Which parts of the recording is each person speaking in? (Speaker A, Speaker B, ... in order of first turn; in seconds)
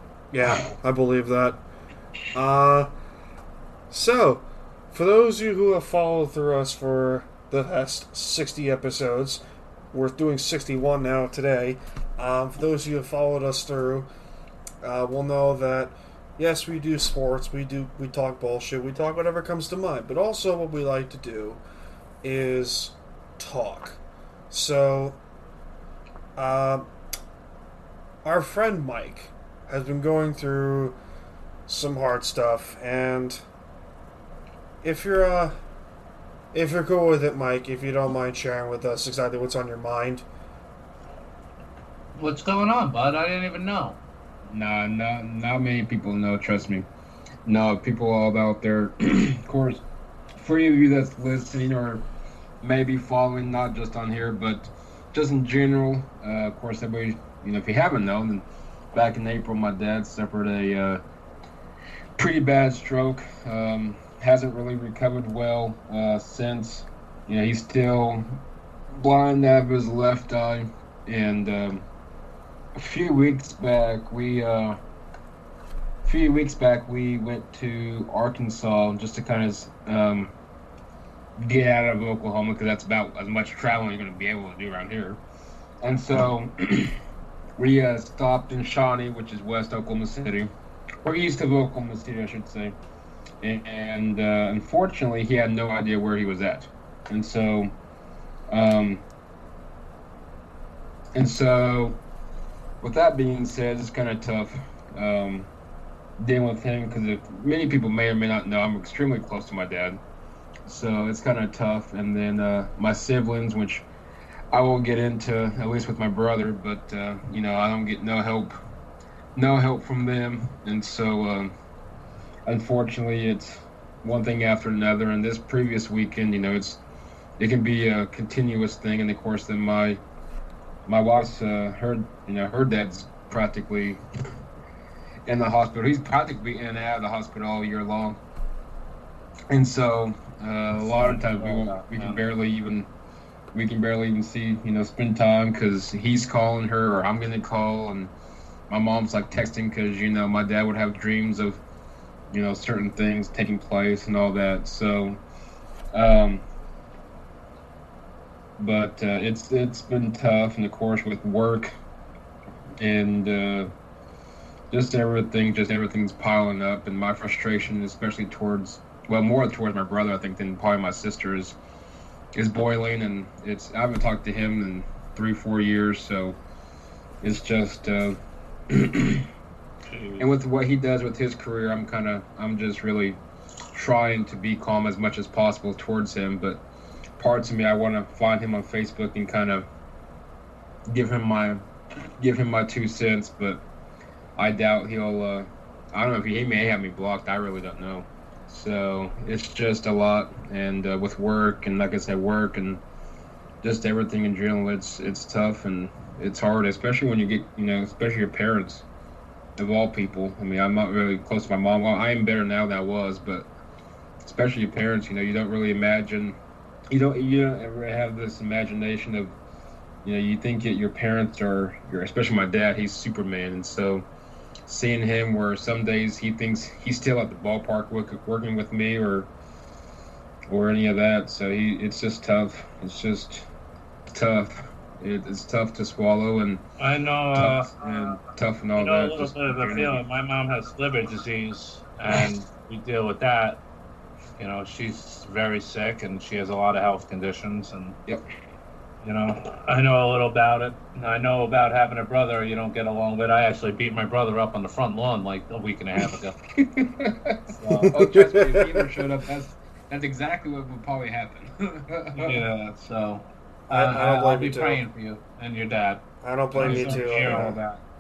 Speaker A: 0.3-1.6, 2.3-2.9, 3.9-14.1, 14.8-21.6, 22.2-24.0, 24.5-25.2, 26.4-26.9, 28.2-31.0, 31.7-33.4, 34.8-35.5, 36.5-40.2, 257.8-258.9, 263.7-264.8, 266.2-267.6
Speaker B: 42.1-44.0, 140.8-142.2, 179.8-180.3, 236.8-237.8, 238.8-243.6, 244.4-248.0, 249.0-256.3, 257.5-257.9, 262.1-266.0, 266.5-267.8
Speaker C: 44.5-46.9, 47.5-49.8, 50.4-52.0, 52.6-61.0, 62.2-68.3, 68.9-71.8, 72.7-74.8, 76.0-80.3, 81.4-85.2, 85.8-87.0, 87.6-92.8, 93.4-97.7, 98.5-99.0, 101.1-102.0, 102.8-105.5, 106.2-110.0, 110.7-113.8, 114.5-118.5, 119.3-121.5, 122.5-126.8, 127.4-130.0, 130.8-134.0, 135.2-138.2, 139.5-142.9, 143.5-148.1, 148.7-151.6, 152.3-155.2, 155.9-156.4, 158.6-161.7, 162.8-163.7, 164.7-171.6, 172.3-176.4, 177.2-179.3, 180.2-183.2, 183.7-186.6, 187.2-189.7, 190.9-191.6, 192.2-193.6, 194.3-202.8, 203.6-208.8, 209.6-213.5, 214.2-216.4, 216.9-219.3, 220.0-224.0, 224.7-229.3, 230.5-233.5, 234.1-236.6, 237.3-240.0, 256.5-262.4, 266.6-267.5